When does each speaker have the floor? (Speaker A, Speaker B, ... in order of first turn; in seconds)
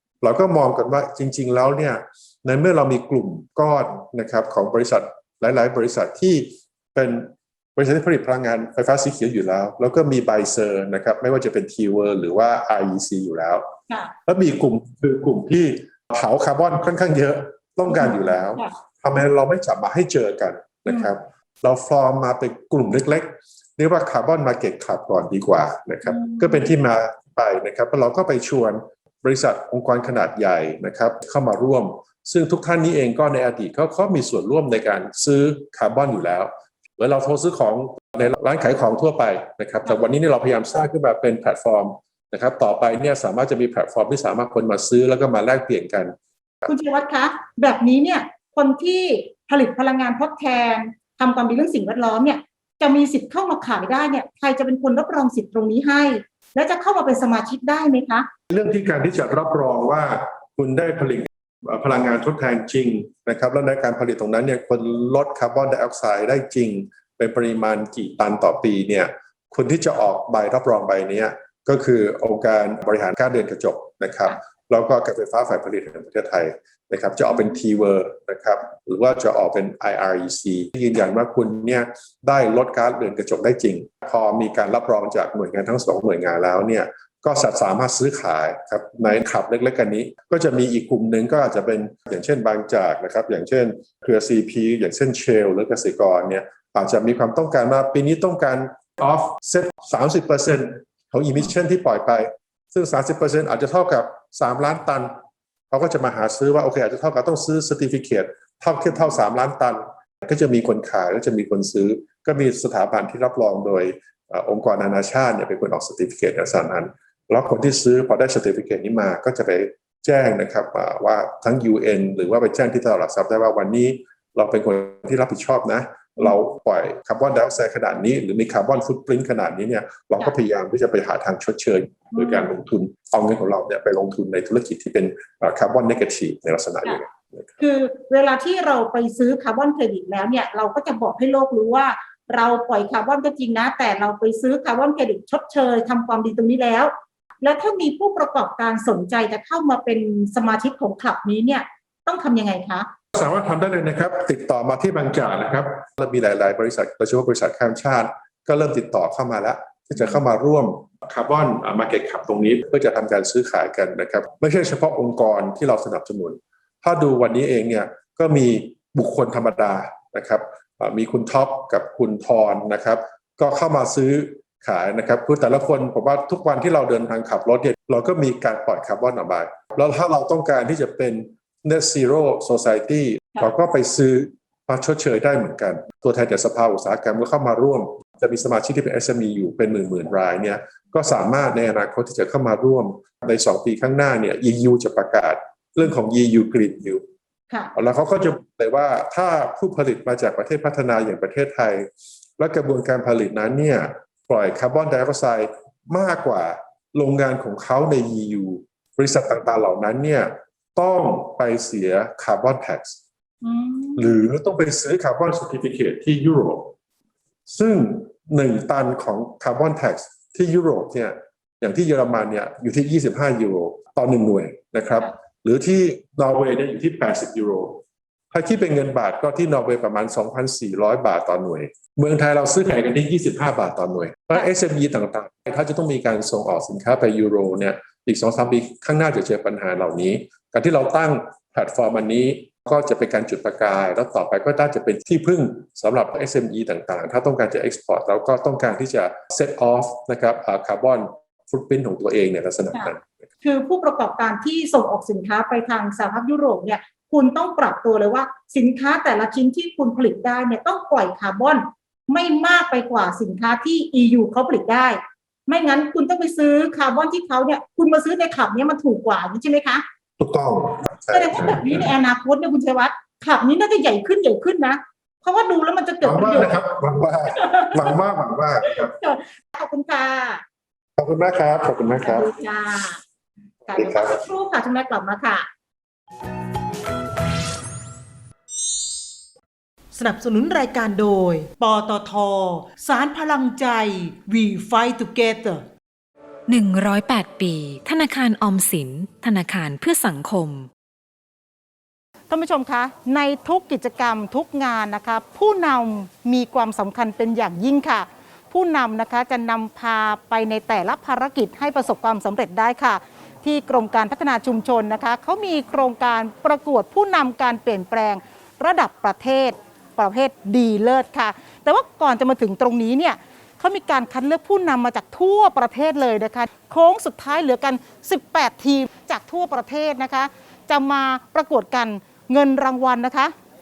Speaker A: 0.2-13.7, 14.3-46.1, 58.5-105.1, 105.7-137.6, 153.1-197.0, 197.8-213.0, 214.0-216.7, 217.5-227.8, 228.3-253.2, 270.2-271.9, 276.0-278.9, 281.0-282.3, 283.7-284.2
Speaker B: 17.9-18.7, 26.1-26.7, 46.7-58.3, 132.2-132.4, 137.6-152.9, 213.4-214.2, 252.8-269.9, 271.1-276.6, 277.4-278.0, 278.7-280.4, 282.0-283.0, 283.7-285.5
Speaker C: 289.9-295.6
Speaker D: 296.5-300.7
Speaker E: 302.3-333.3